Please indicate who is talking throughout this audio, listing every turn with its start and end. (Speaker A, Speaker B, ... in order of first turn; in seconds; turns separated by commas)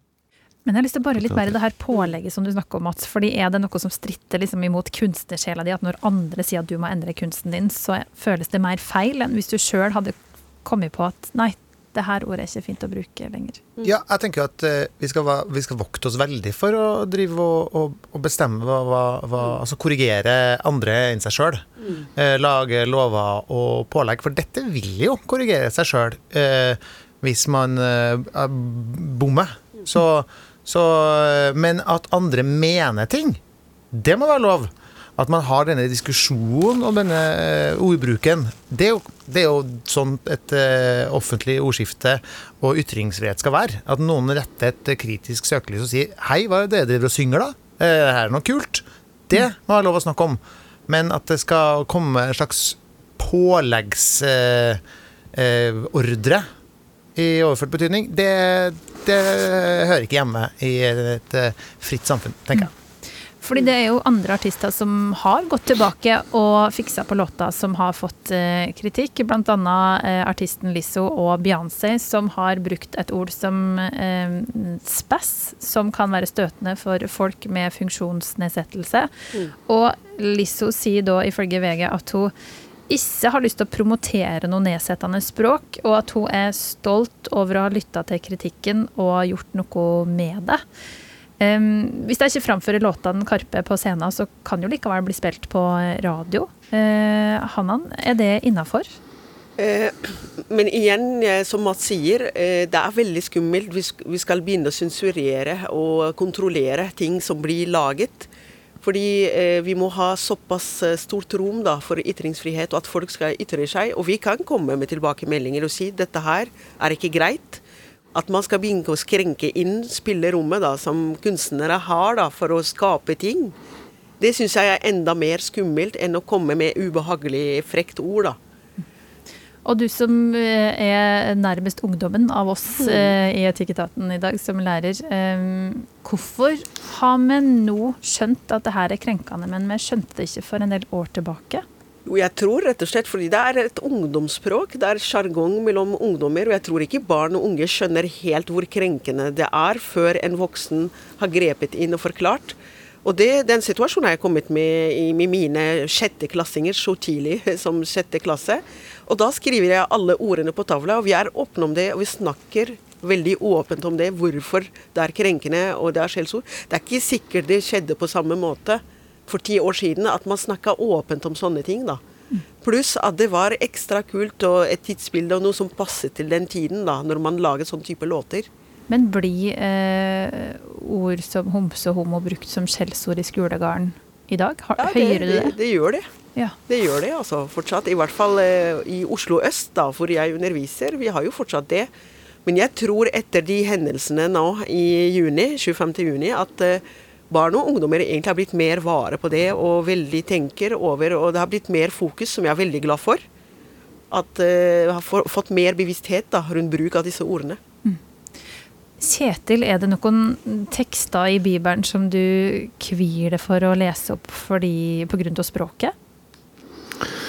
Speaker A: 0.7-10.1, Speaker A: 10.6-13.6, Speaker B: 13.8-33.4, Speaker B: 33.9-54.8, Speaker B: 55.3-56.5, Speaker B: 57.1-62.7, Speaker A: 63.4-79.1, Speaker A: 79.7-82.3, Speaker A: 82.9-90.6, Speaker A: 91.4-99.0, Speaker C: 99.6-108.3, Speaker C: 108.8-117.6, Speaker C: 118.1-123.5, Speaker C: 124.2-128.4, Speaker A: 129.6-141.6, Speaker C: 132.8-133.1, Speaker C: 142.1-172.0, Speaker C: 172.6-178.5, Speaker A: 178.9-185.6, Speaker C: 184.8-186.1, Speaker C: 186.7-191.9, Speaker C: 192.5-203.2, Speaker C: 204.1-207.6, Speaker A: 209.0-215.9